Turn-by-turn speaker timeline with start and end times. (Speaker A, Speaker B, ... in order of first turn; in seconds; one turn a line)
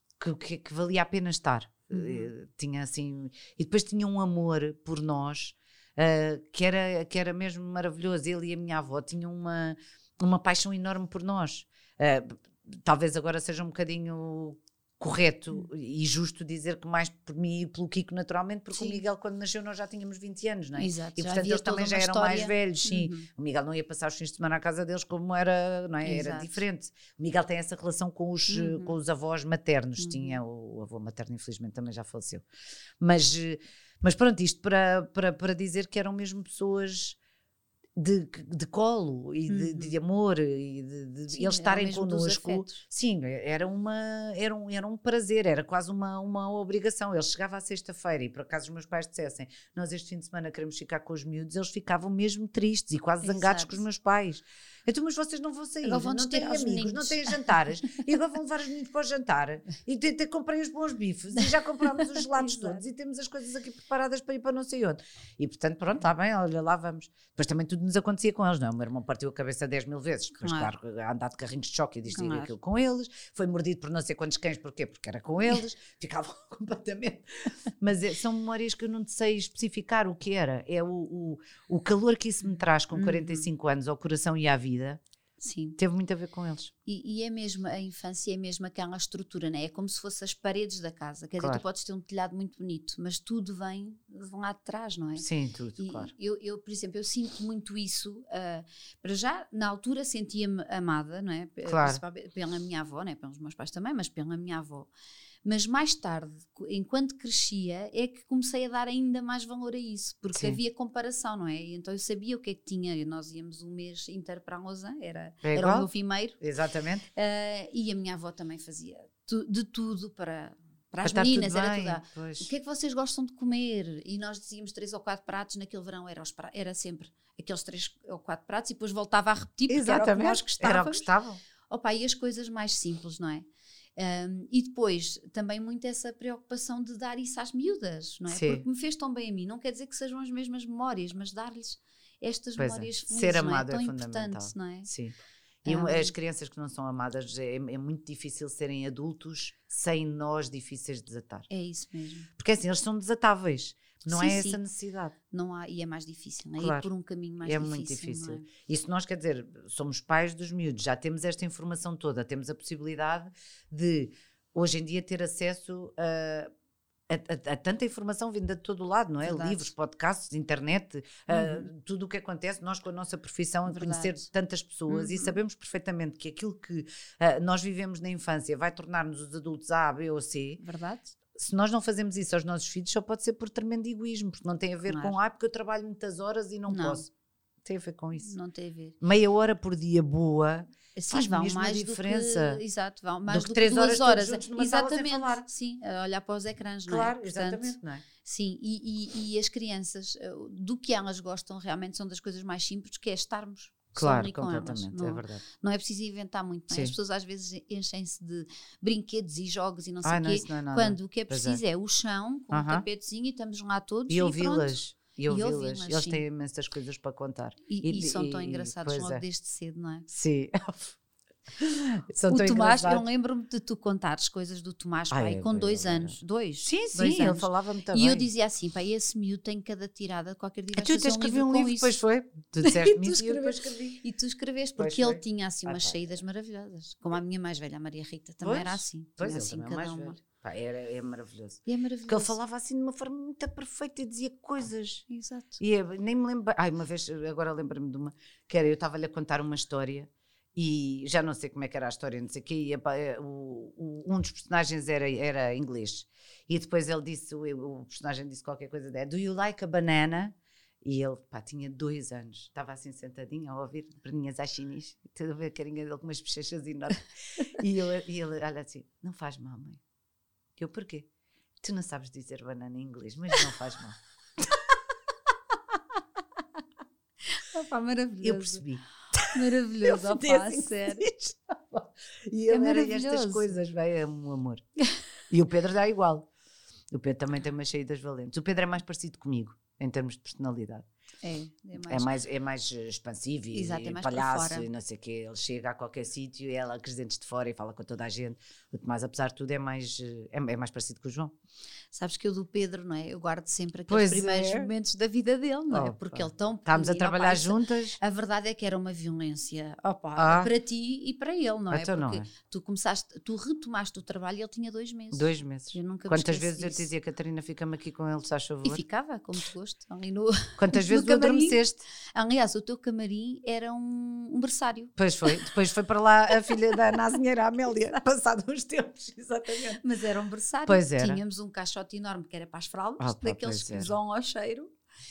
Speaker A: 0.2-32.5
Speaker B: 1.9-2.3
Speaker B: 18.7-19.0
Speaker B: 20.8-23.3
Speaker B: 26.0-26.6
Speaker B: 28.5-29.0
Speaker B: 30.0-30.4
Speaker A: 33.0-37.2
Speaker A: 38.0-85.0
Speaker B: 39.5-40.0
Speaker B: 41.3-42.8
Speaker B: 53.2-53.8
Speaker B: 55.8-57.5
Speaker B: 62.0-62.8
Speaker B: 70.4-70.7
Speaker B: 72.1-72.5
Speaker B: 82.9-83.5
Speaker B: 85.4-85.8
Speaker A: 85.8-86.7
Speaker B: 86.9-95.3
Speaker A: 95.2-96.1
Speaker B: 95.8-104.9
Speaker A: 101.7-102.0
Speaker B: 105.5-116.4
Speaker A: 110.3-110.6
Speaker A: 115.4-115.9
Speaker A: 116.4-117.1
Speaker B: 117.2-131.1
Speaker A: 121.0-122.5
Speaker A: 129.7-131.4
Speaker B: 131.7-133.5
Speaker B: 134.0-144.9
Speaker A: 138.3-138.7
Speaker A: 142.6-151.5
Speaker B: 145.7-146.1
Speaker B: 151.5-152.3
Speaker A: 152.4-155.2
Speaker B: 154.1-154.6
Speaker B: 155.3-158.5
Speaker A: 156.6-156.9
Speaker A: 157.4-166.5
Speaker A: 167.1-180.6
Speaker B: 169.2-169.7
Speaker B: 171.3-171.7
Speaker B: 173.7-174.2
Speaker B: 174.9-175.4
Speaker B: 180.6-181.2
Speaker A: 181.3-187.1
Speaker B: 184.9-185.2
Speaker B: 186.7-187.0
Speaker A: 187.7-188.3
Speaker B: 188.2-189.0
Speaker A: 189.0-192.6
Speaker B: 190.9-216.2
Speaker A: 193.3-195.4
Speaker A: 196.9-198.1
Speaker A: 204.0-205.4
Speaker A: 210.0-211.6
Speaker A: 212.5-212.8
Speaker A: 214.1-219.2
Speaker B: 217.7-220.1
Speaker A: 220.1-221.0
Speaker A: 221.6-223.0
Speaker B: 222.3-232.0
Speaker A: 225.1-228.3
Speaker A: 230.8-234.0
Speaker B: 232.6-240.2
Speaker A: 234.8-236.1
Speaker A: 238.4-245.0
Speaker B: 241.7-242.3
Speaker B: 245.1-245.6
Speaker A: 245.6-269.8
Speaker A: 270.6-271.1
Speaker A: 271.6-274.0
Speaker B: 277.3-278.6
Speaker A: 278.2-284.6
Speaker B: 279.3-281.0
Speaker B: 282.5-283.6
Speaker A: 285.3-286.3
Speaker A: 286.9-290.9
Speaker B: 291.2-292.1
Speaker A: 291.9-301.3
Speaker B: 293.5-294.7
Speaker B: 301.9-316.9
Speaker A: 303.9-304.7
Speaker A: 305.7-308.0
Speaker A: 310.2-310.5
Speaker A: 311.7-312.3
Speaker A: 315.1-318.8
Speaker B: 318.6-325.5
Speaker A: 320.6-321.8
Speaker A: 325.0-329.8
Speaker B: 329.8-334.7
Speaker A: 330.7-331.2
Speaker A: 333.0-334.0